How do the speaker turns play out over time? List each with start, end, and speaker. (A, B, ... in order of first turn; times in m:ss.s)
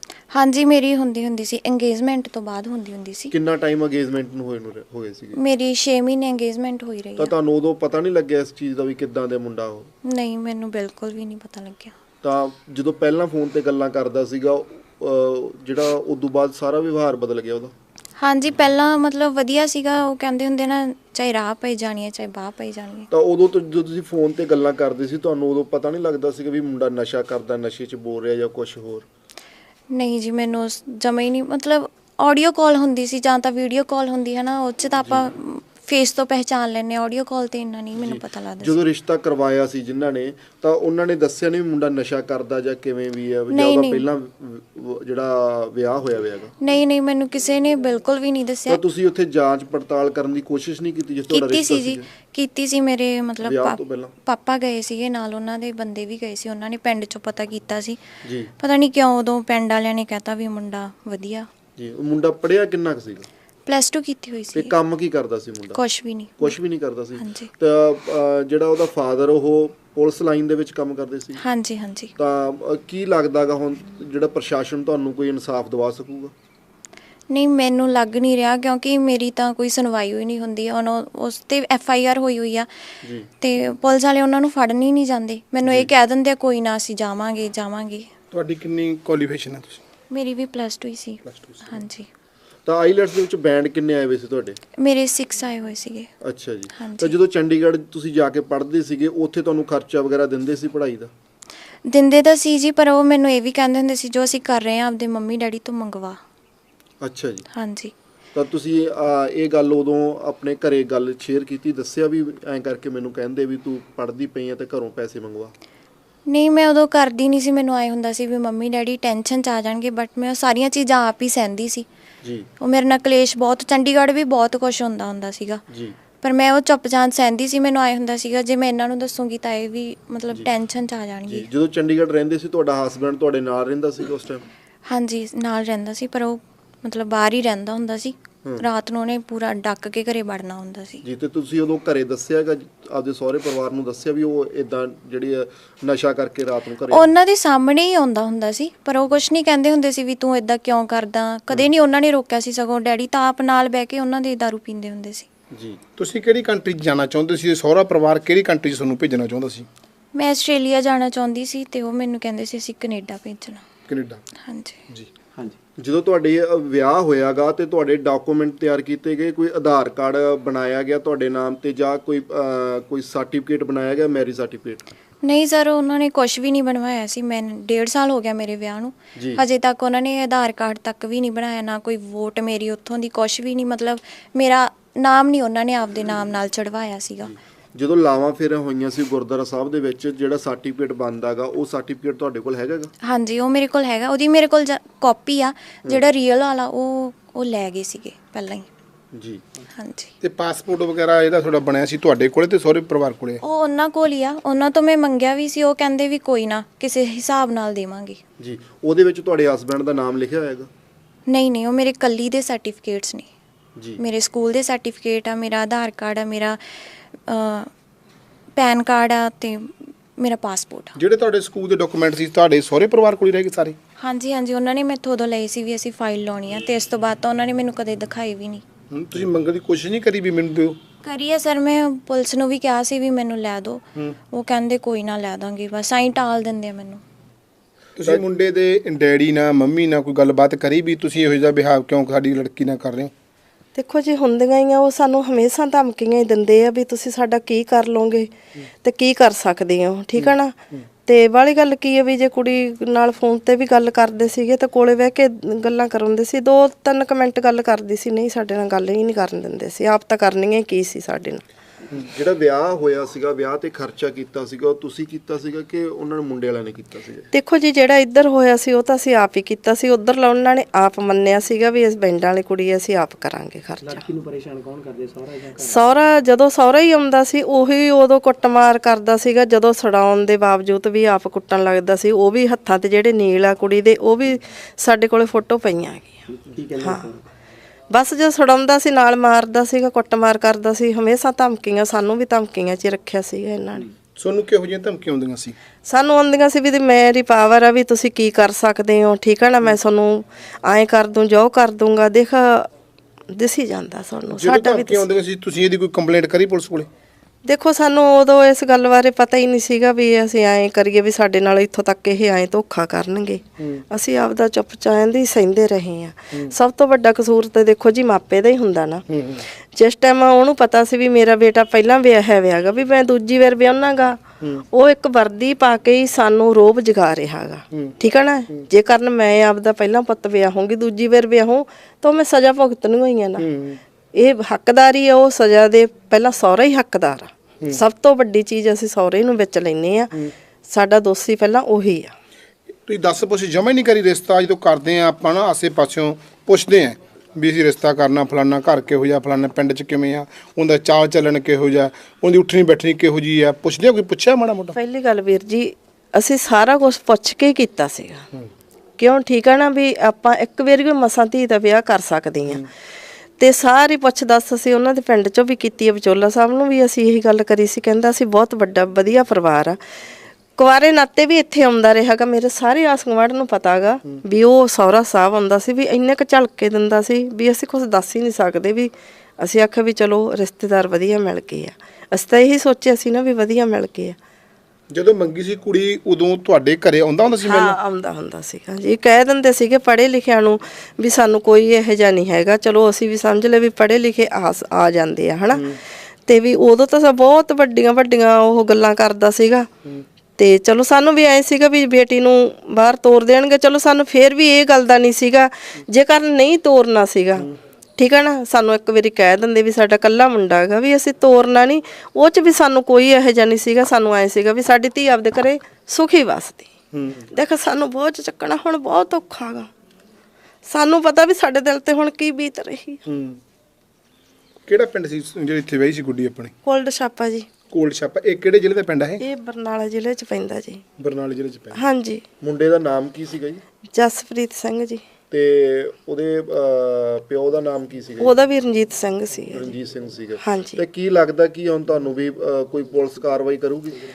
0:00.3-0:03.3 A
0:03.3-0:05.4 B
0:05.4-0:07.3 A
0:07.2-0:09.9 B
0:10.1-0:11.9 A
0:12.2-0:17.7 B
0:18.2-0:23.1 A
0:23.1-0:29.0 B
0:29.9-0:38.8 A
0:38.0-0:46.5 B
0:43.5-0:44.0 A
0:46.6-0:48.8 A
0:48.7-0:52.0 B
0:51.3-0:58.0 A
0:53.4-0:54.1 B
0:58.2-0:58.5 B
0:58.6-1:01.5 A
1:01.8-1:03.3 B
1:03.6-1:04.7 A
1:04.5-1:05.8 B
1:05.7-1:06.6 A
1:06.4-1:11.4 B
1:07.2-1:07.5 A
1:11.4-1:12.1 A
1:12.2-1:16.3 B
1:17.3-1:22.7 A
1:23.4-1:28.1 A
1:28.3-1:29.8 C
1:30.1-1:32.1 A
1:31.2-1:31.8 C
1:32.6-1:34.6 B
1:34.8-1:36.1 A
1:36.2-1:41.1 B
1:36.8-1:37.2 A
1:41.8-1:46.2 A
1:47.0-1:47.4 B
1:47.5-1:47.9 A
1:48.3-1:55.5 B
1:56.3-2:01.8 A
2:02.2-2:02.5 B
2:02.6-2:05.6 A
2:05.7-2:06.0 B
2:06.2-2:11.5 A
2:11.3-2:14.5 B
2:14.8-2:21.0 A
2:21.0-2:27.1 B
2:26.9-2:35.3 A
2:35.5-2:35.8 B
2:36.0-2:39.6 C
2:40.1-2:43.6 A
2:43.9-2:44.2 C
2:44.4-2:44.8 A
2:45.8-2:54.8 B
2:55.2-3:07.3 A
2:59.2-2:59.4 B
3:07.3-3:12.9 B
3:13.0-3:18.7 A
3:19.1-3:19.4 B
3:19.7-3:20.1 A
3:20.2-3:23.4 C
3:23.4-3:28.2 A
3:28.4-3:30.7 B
3:31.3-3:33.3 A
3:33.8-3:34.0 B
3:34.0-3:36.6 A
3:37.2-3:37.7 A
3:38.5-3:40.9 A
3:40.9-3:43.8 C
3:44.0-3:48.6 A
3:48.9-3:50.8 C
3:51.0-3:57.0 A
3:58.0-4:03.1 C
4:03.8-4:08.3 D
4:08.8-4:21.4 D
4:22.1-4:27.3 B
4:27.3-4:34.1 D
4:33.8-4:36.0 E
4:35.6-4:46.2 D
4:46.3-4:47.2 E
4:46.8-4:47.1 D
4:47.9-4:53.8 D
4:54.2-4:55.5 C
4:55.8-5:02.7 D
5:03.3-5:05.0 D
5:04.3-5:06.9 C
5:07.4-5:19.0 D
5:19.1-5:19.4 C
5:19.7-5:24.2 D
5:24.7-5:33.5 D
5:33.4-5:33.8 C
5:34.1-5:40.1 D
5:40.7-5:42.1 D
5:42.9-5:54.7 C
5:54.7-5:58.2 D
5:59.0-6:02.7 D
6:03.4-6:09.8 D
6:10.6-6:24.2 D
6:24.9-6:27.8 C
6:27.4-6:39.7 D
6:35.5-6:35.8 C
6:40.4-6:56.7 D
6:56.9-6:57.3 C
6:57.3-6:59.7 D
7:00.7-7:03.0 D
7:03.0-7:03.4 C
7:04.7-7:06.5 C
7:06.6-7:07.5 D
7:07.7-7:09.2 C
7:09.2-7:10.8 D
7:11.0-7:11.8 C
7:11.7-7:12.2 D
7:12.4-7:13.6 B
7:13.9-7:15.0 D
7:15.3-7:18.3 B
7:18.2-7:19.8 D
7:19.5-7:24.0 B
7:20.4-7:20.8 D